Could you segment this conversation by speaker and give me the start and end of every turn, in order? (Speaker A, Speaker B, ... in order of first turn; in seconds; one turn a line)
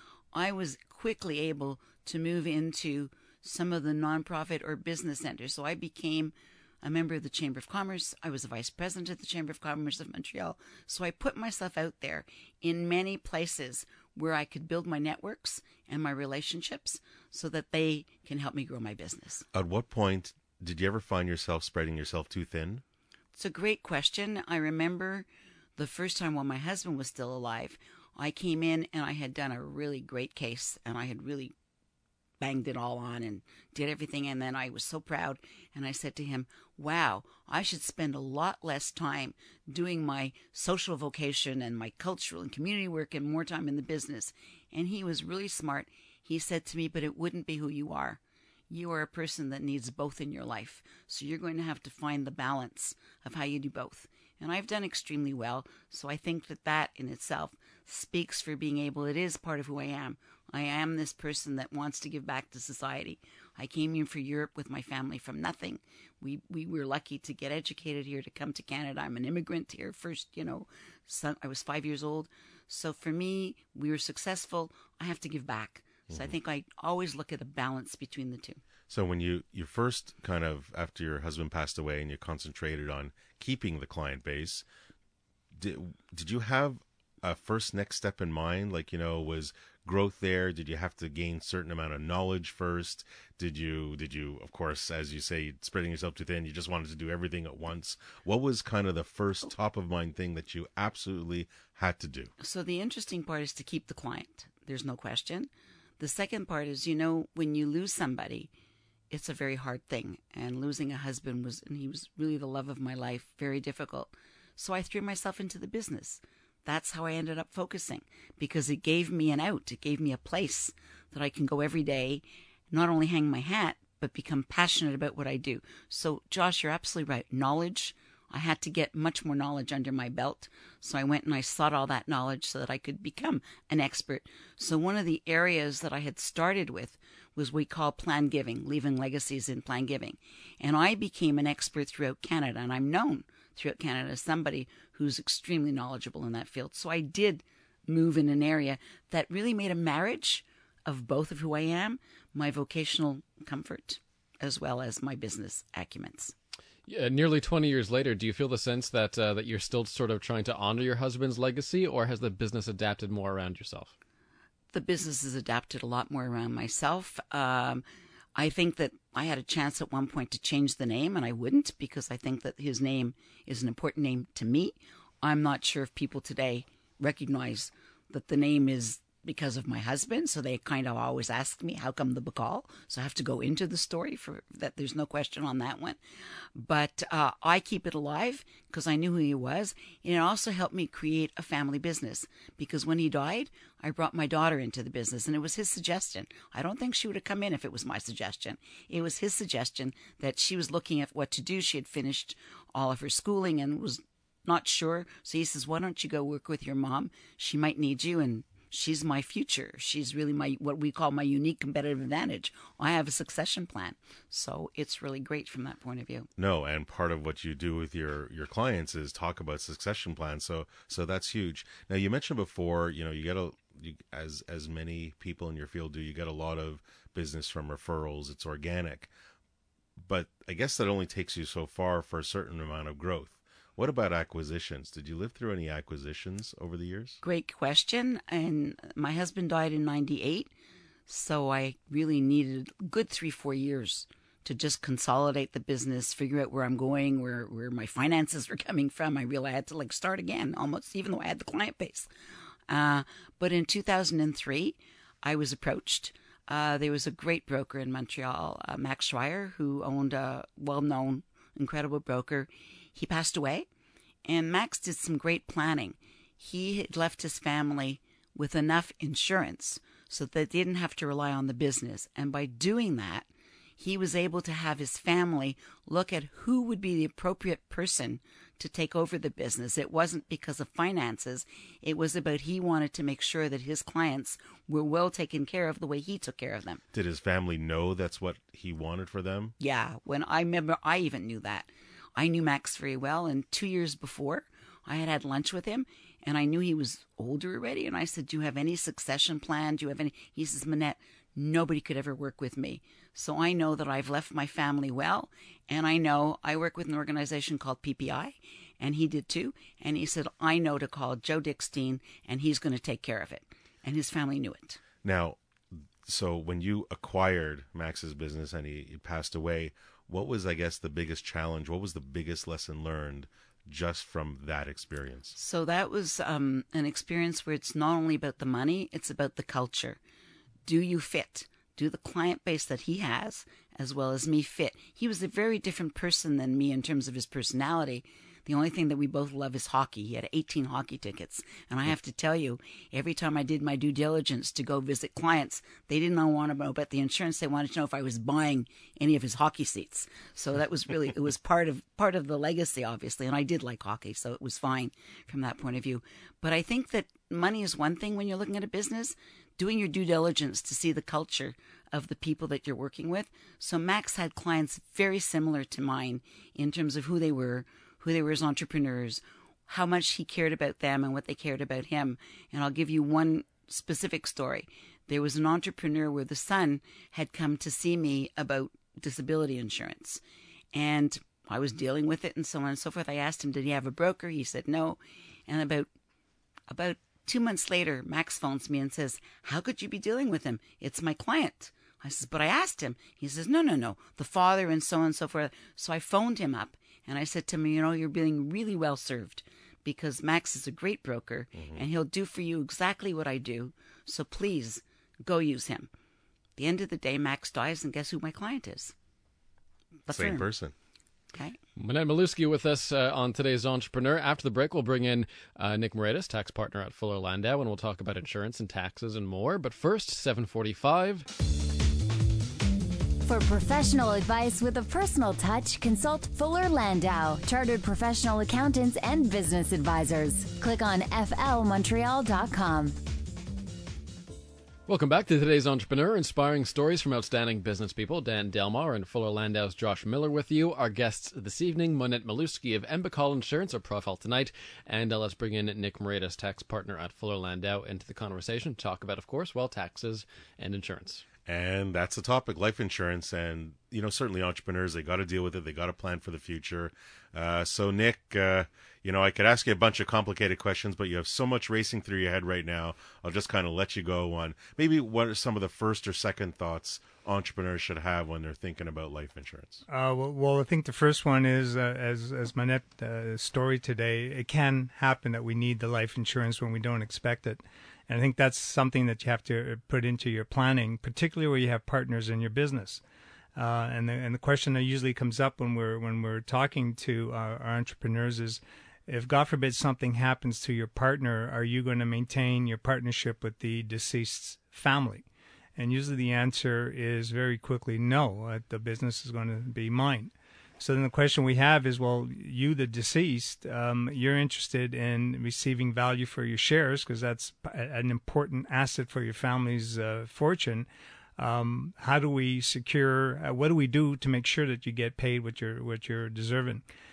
Speaker A: 0.3-19.4
Speaker B: 19.5-22.8
Speaker A: 23.3-25.2
Speaker A: 25.8-31.5
Speaker A: 32.4-78.6
Speaker B: 78.9-84.6
Speaker B: 85.5-102.3
Speaker A: 102.4-108.5
Speaker A: 109.1-156.3
Speaker C: 156.9-163.9
Speaker A: 164.7-167.8
Speaker A: 168.3-186.0
Speaker A: 186.5-216.3
Speaker B: 216.4-229.1
Speaker B: 230.0-237.2
Speaker A: 237.2-240.5
Speaker A: 241.1-252.1
Speaker A: 252.7-263.7
Speaker A: 264.2-273.3
Speaker A: 273.8-286.8
Speaker B: 286.9-289.5
Speaker A: 289.6-314.8
Speaker B: 315.0-325.4
Speaker A: 325.4-330.0
Speaker A: 330.6-380.2
Speaker A: 380.7-385.9
Speaker A: 386.7-405.9
Speaker B: 401.6-401.8
Speaker A: 406.6-408.9
Speaker A: 410.1-410.4
Speaker B: 410.1-410.7
Speaker C: 411.8-421.2
Speaker D: 423.2-432.9
Speaker C: 434.9-451.2
Speaker B: 451.4-469.8
Speaker E: 469.9-483.0
Speaker E: 483.6-495.2
Speaker E: 495.8-516.8